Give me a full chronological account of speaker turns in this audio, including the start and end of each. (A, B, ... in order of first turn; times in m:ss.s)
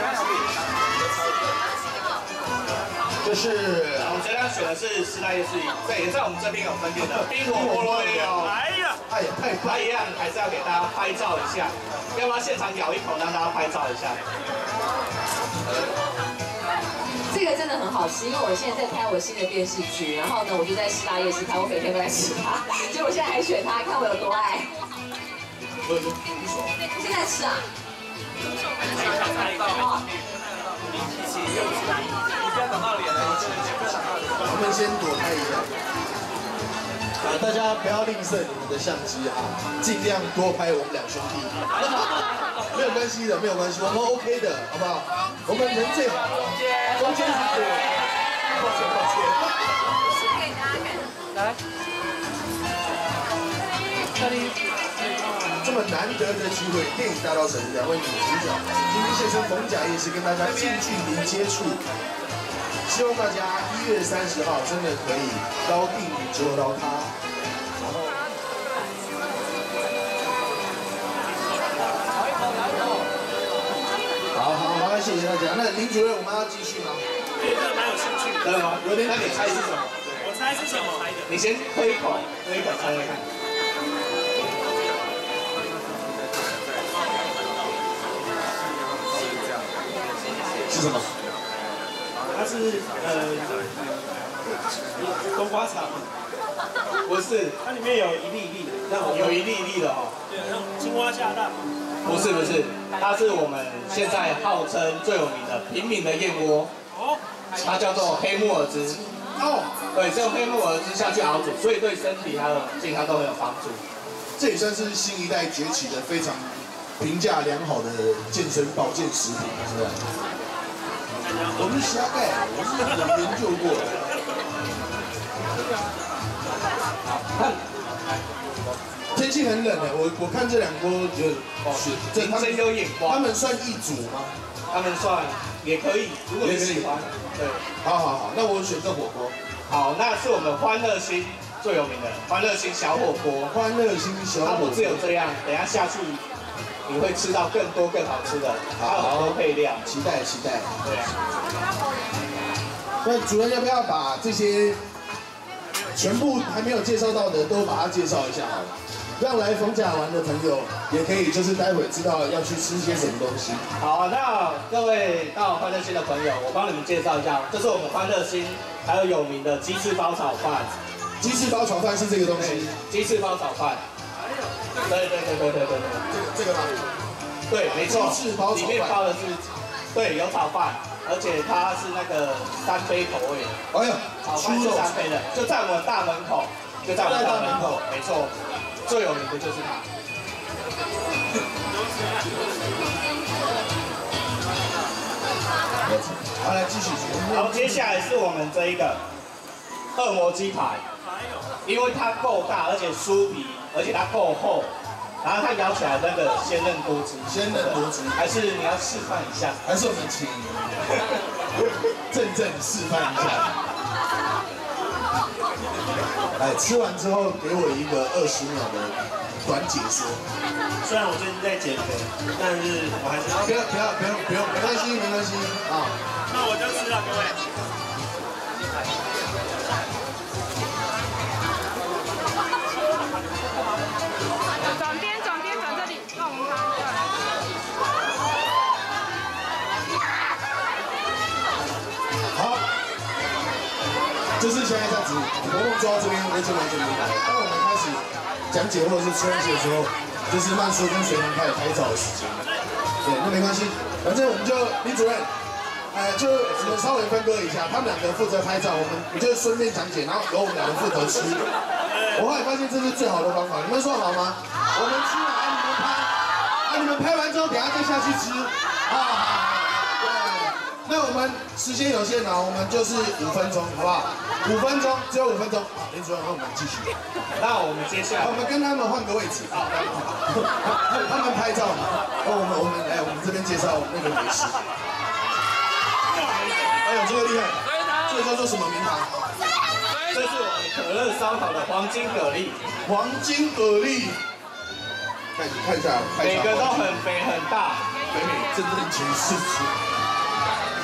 0:03.2-0:04.2 A
0:04.0-0:08.5 B
0:06.9-0:08.5 A
0:08.4-0:09.0 C
0:09.1-0:09.9 A
0:09.6-0:14.2 B
0:17.3-0:24.7 D
0:25.8-0:26.8 A
0:26.9-0:27.6 D
0:29.6-0:30.0 D
0:33.1-0:35.7 A
0:37.2-0:41.6 A
0:42.7-0:49.6 A
0:55.6-1:01.8 A
1:02.9-1:07.1 A
1:07.8-1:08.1 A
1:14.3-1:17.0 A
1:17.4-1:18.5 C
1:18.4-1:19.9 B
1:18.8-1:19.6 A
1:20.2-1:21.2 C
1:21.2-1:23.2 B
1:30.7-1:31.1 A
1:32.3-1:33.5 C
1:35.0-1:36.1 C
1:37.0-1:37.6 B
1:37.6-1:39.4 C
1:38.9-1:40.1 B
1:40.3-1:42.1 C
1:42.0-1:46.7 B
1:47.6-1:49.0 B
1:49.4-1:49.8 A
1:49.9-1:53.8 B
1:54.4-2:00.0 A
2:01.5-2:04.0 A
2:07.2-2:07.6 B
2:09.1-2:14.3 A
2:11.6-2:13.2 B
2:14.7-2:17.6 B
2:16.4-2:17.0 A
2:17.8-2:19.3 A
2:19.7-2:23.5 B
2:23.5-2:25.1 A
2:24.4-2:26.2 B
2:26.8-2:29.8 B
2:28.8-2:30.7 A
2:30.8-2:31.1 B
2:33.0-2:34.8 A
2:35.9-2:43.6 A
2:43.8-2:50.7 B
2:51.2-2:52.7 A
2:52.4-2:53.8 B
2:54.9-2:56.0 B
2:56.1-2:56.8 A
2:57.5-3:03.6 B
2:57.7-2:59.0 A
3:03.7-3:04.9 A
3:04.2-3:08.3 B
3:06.9-3:07.8 A
3:08.8-3:09.8 B
3:15.8-3:18.0 A
3:17.3-3:19.0 B
3:19.9-3:20.8 B
3:21.0-3:21.4 C
3:21.6-3:24.7 B
3:25.2-3:29.6 B
3:27.2-3:28.2 A
3:29.6-3:30.7 A
3:32.1-3:33.5 A
3:36.4-3:40.2 A
3:40.8-3:43.5 C
3:43.4-3:45.9 A
3:46.3-3:47.4 C
4:02.3-4:02.6 A
4:04.4-4:12.4 A
4:13.0-4:15.3 A
4:15.9-4:21.4 A
4:21.9-4:22.2 C
4:22.1-4:36.9 A
4:37.4-4:38.4 B
4:38.2-4:44.6 A
4:46.8-4:49.1 A
4:50.1-4:52.6 B
4:52.8-4:54.2 A
4:55.3-4:57.0 A
4:56.2-4:57.8 B
4:58.1-4:59.7 A